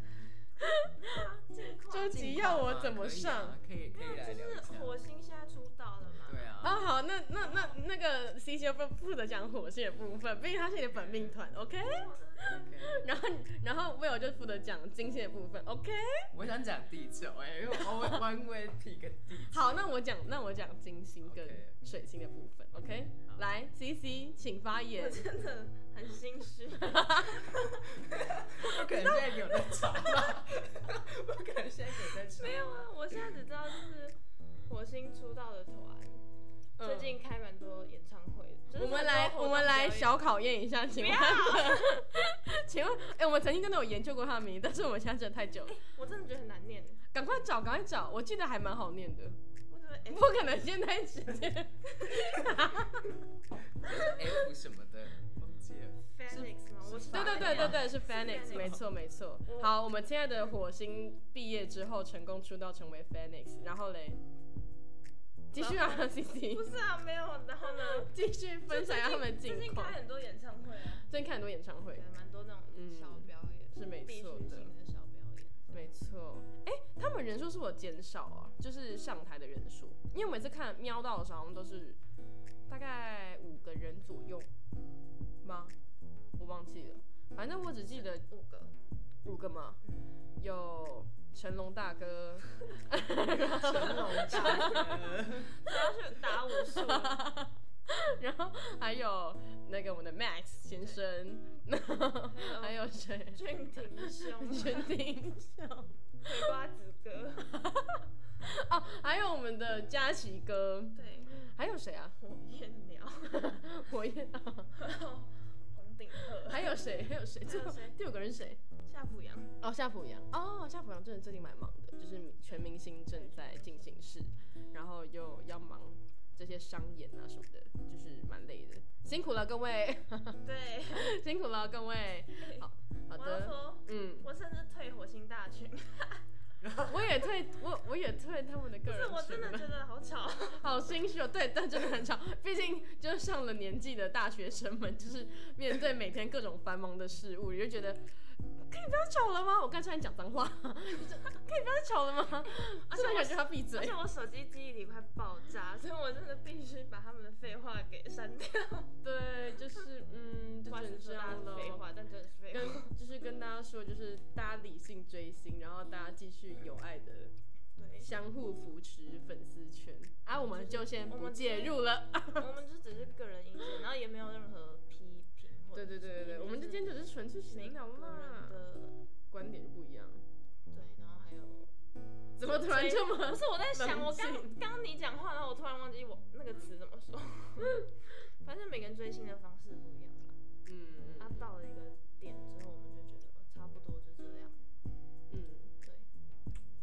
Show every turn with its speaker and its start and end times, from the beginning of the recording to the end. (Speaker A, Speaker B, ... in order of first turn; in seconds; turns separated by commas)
Speaker A: 0.6-0.9, Speaker B: 1.0-2.5, Speaker A: 1.9-3.6, Speaker C: 2.1-5.0, Speaker B: 4.0-6.5, Speaker C: 6.2-6.9, Speaker A: 6.6-16.3, Speaker B: 7.4-7.8, Speaker B: 11.8-12.6, Speaker C: 12.6-13.1, Speaker C: 16.3-19.8, Speaker A: 19.5-25.3, Speaker C: 21.2-21.7, Speaker C: 22.8-23.4, Speaker B: 24.9-28.1, Speaker A: 26.8-27.5, Speaker C: 27.9-33.4, Speaker B: 28.6-29.9, Speaker B: 32.3-34.2, Speaker B: 34.7-36.2, Speaker A: 36.8-37.1, Speaker B: 36.8-40.1, Speaker A: 38.7-45.8, Speaker B: 40.9-42.0, Speaker B: 45.7-47.0, Speaker A: 47.1-49.4, Speaker B: 49.7-50.6, Speaker A: 50.1-53.2, Speaker C: 53.7-58.8, Speaker B: 56.1-58.8, Speaker A: 57.1-64.2, Speaker B: 59.5-59.8, Speaker A: 65.5-66.7, Speaker B: 65.5-68.1, Speaker A: 67.9-70.0, Speaker B: 68.7-71.1, Speaker A: 71.1-72.0, Speaker B: 71.9-75.6, Speaker A: 72.7-74.7, Speaker A: 75.7-82.0, Speaker A: 82.7-84.5, Speaker A: 85.4-85.8, Speaker A: 86.4-88.2, Speaker B: 87.9-88.8, Speaker A: 89.2-89.8, Speaker B: 89.8-90.1, Speaker A: 90.4-95.0, Speaker C: 93.5-95.6, Speaker B: 93.7-97.3, Speaker A: 96.5-105.9, Speaker B: 102.3-102.8, Speaker B: 103.3-105.0, Speaker B: 106.2-107.6, Speaker A: 107.5-112.1, Speaker B: 111.0-111.4, Speaker B: 112.2-113.7, Speaker A: 113.2-114.7, Speaker B: 114.7-116.8, Speaker A: 116.5-118.6, Speaker B: 117.4-118.0, Speaker B: 118.8-119.5, Speaker A: 119.6-134.2, Speaker B: 123.1-123.9, Speaker B: 130.4-131.1, Speaker B: 133.2-136.2, Speaker C: 136.6-137.2, Speaker A: 136.8-139.7, Speaker B: 138.8-140.7, Speaker A: 140.6-148.1, Speaker A: 148.7-154.0, Speaker B: 152.6-158.9, Speaker A: 159.0-161.9, Speaker B: 160.7-162.9, Speaker A: 162.5-167.3, Speaker B: 167.8-168.1, Speaker A: 168.0-172.5, Speaker B: 170.3-178.9, Speaker A: 175.8-178.6, Speaker A: 179.3-180.2, Speaker B: 180.7-181.7, Speaker A: 182.4-184.6, Speaker B: 182.4-190.3, Speaker A: 190.7-191.5, Speaker B: 191.2-194.6, Speaker A: 195.3-195.7